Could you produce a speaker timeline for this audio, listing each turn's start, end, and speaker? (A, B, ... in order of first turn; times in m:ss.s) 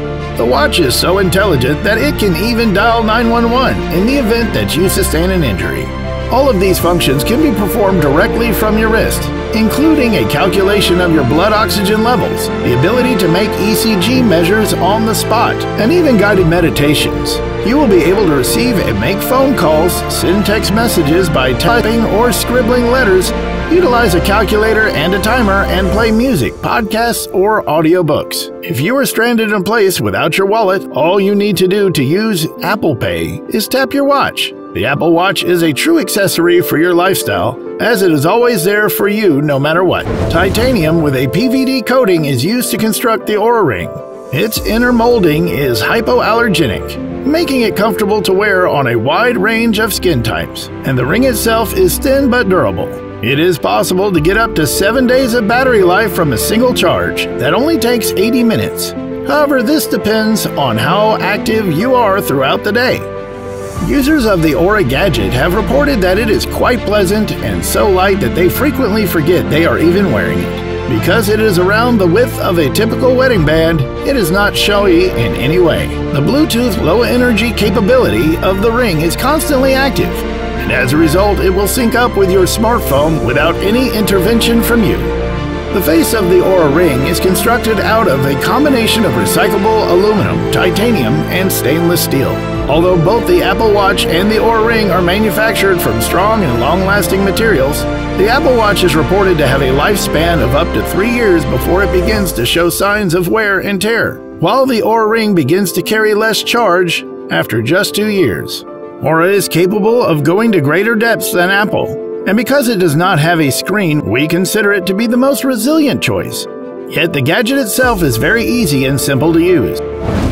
0:00.4-1:03.1 A
1:03.8-1:25.2 A
1:25.7-1:59.8 A